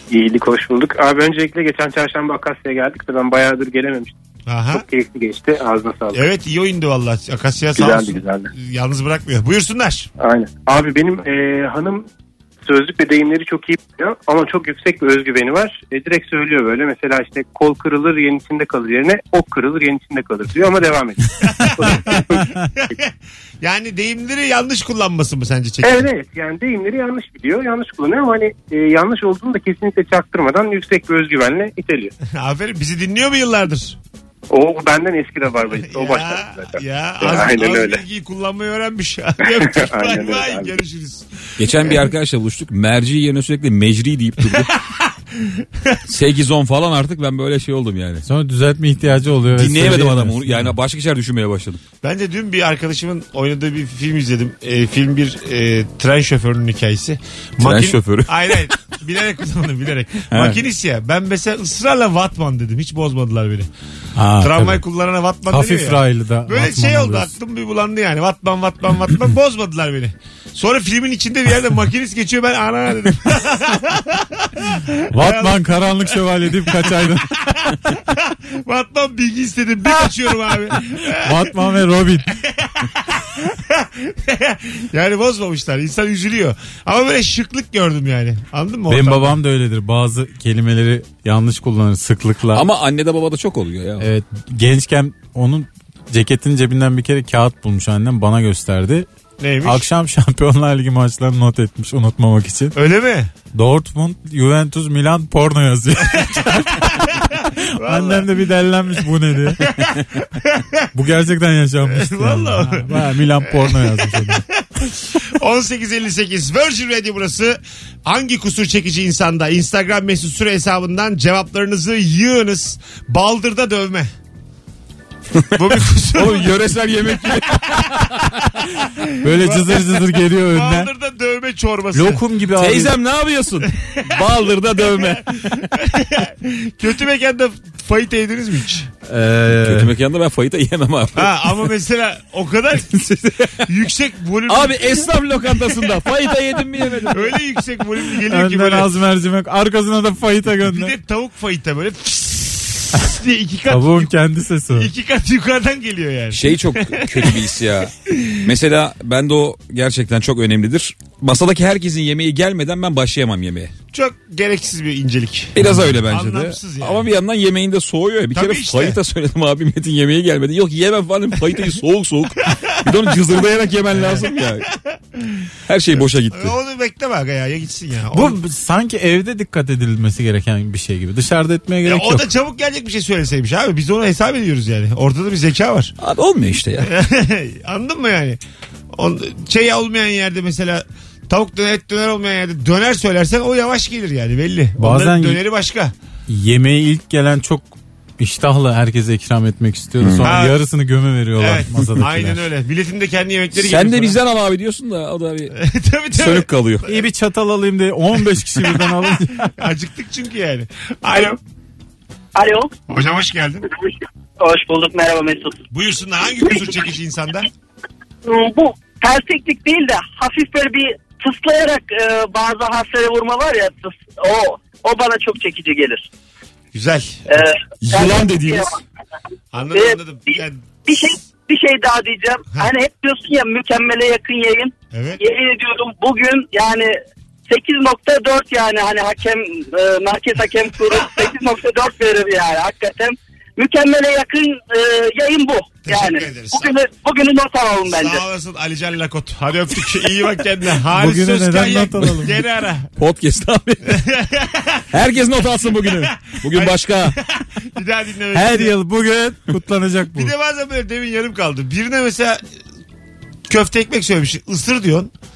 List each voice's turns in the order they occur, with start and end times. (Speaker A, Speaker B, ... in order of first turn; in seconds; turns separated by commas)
Speaker A: 0.1-4.1, Speaker B: 4.5-4.8, Speaker A: 4.7-6.2, Speaker B: 6.1-10.1, Speaker A: 7.8-8.5, Speaker A: 10.2-12.1, Speaker A: 12.7-22.5, Speaker B: 21.5-26.1, Speaker C: 22.1-22.6, Speaker A: 25.8-32.1, Speaker B: 32.3-34.0, Speaker A: 34.5-38.0, Speaker B: 35.8-42.0, Speaker A: 39.4-40.7, Speaker D: 41.6-44.8, Speaker B: 45.4-46.0, Speaker D: 46.1-48.2, Speaker C: 48.2-50.7, Speaker D: 49.6-51.8, Speaker B: 52.0-63.7, Speaker D: 57.6-58.7, Speaker D: 60.3-60.6, Speaker C: 64.2-64.8, Speaker B: 64.4-89.4, Speaker C: 65.5-67.3, Speaker C: 75.1-77.6, Speaker C: 81.1-82.3, Speaker C: 88.9-92.7, Speaker D: 92.5-94.1, Speaker C: 94.0-99.1, Speaker B: 99.4-99.8, Speaker C: 99.6-102.8, Speaker B: 102.7-103.3, Speaker C: 103.5-107.0, Speaker B: 106.1-108.5, Speaker C: 107.6-109.7, Speaker B: 109.6-110.9, Speaker C: 110.9-114.4, Speaker B: 111.8-124.1, Speaker B: 125.5-126.5, Speaker D: 126.1-128.4, Speaker B: 127.2-128.0, Speaker B: 128.8-132.2, Speaker C: 129.2-130.9, Speaker C: 131.9-132.9, Speaker D: 132.6-135.7, Speaker B: 133.8-134.2, Speaker B: 134.9-138.9, Speaker C: 139.1-139.9, Speaker D: 139.6-141.6, Speaker B: 141.2-145.1, Speaker D: 142.9-143.7, Speaker D: 144.5-147.4, Speaker B: 147.1-148.9, Speaker C: 148.3-150.9, Speaker B: 150.6-154.1, Speaker C: 153.7-154.9, Speaker B: 154.7-157.5, Speaker D: 156.3-163.7, Speaker B: 158.1-158.5, Speaker B: 163.9-167.1, Speaker D: 165.6-174.7, Speaker B: 168.3-169.0, Speaker B: 172.5-173.2, Speaker B: 173.9-175.5, Speaker D: 175.7-176.6, Speaker B: 176.0-178.4, Speaker C: 178.1-182.3, Speaker B: 181.8-185.9, Speaker D: 186.0-186.9, Speaker B: 186.8-188.4, Speaker B: 188.9-195.9, Speaker C: 194.8-195.4, Speaker C: 196.3-202.4, Speaker D: 200.0-200.4, Speaker B: 200.2-200.6, Speaker B: 201.4-204.2, Speaker D: 203.6-205.6, Speaker B: 205.5-207.0, Speaker D: 206.1-206.9, Speaker C: 206.9-209.6, Speaker B: 209.6-211.4, Speaker E: 212.3-212.7, Speaker B: 212.9-213.7, Speaker E: 214.4-215.6, Speaker B: 215.7-217.5, Speaker E: 218.2-226.1, Speaker B: 226.7-227.4, Speaker E: 227.3-228.7, Speaker D: 227.8-228.7, Speaker B: 229.5-230.6, Speaker E: 229.7-237.0, Speaker B: 234.9-235.2, Speaker E: 237.5-248.2, Speaker B: 245.9-246.7, Speaker B: 247.8-252.9, Speaker C: 250.9-252.4, Speaker D: 253.0-254.0, Speaker B: 253.9-254.9, Speaker D: 254.9-257.2, Speaker B: 255.8-258.8, Speaker C: 258.3-260.3, Speaker B: 260.1-262.4, Speaker B: 263.5-265.1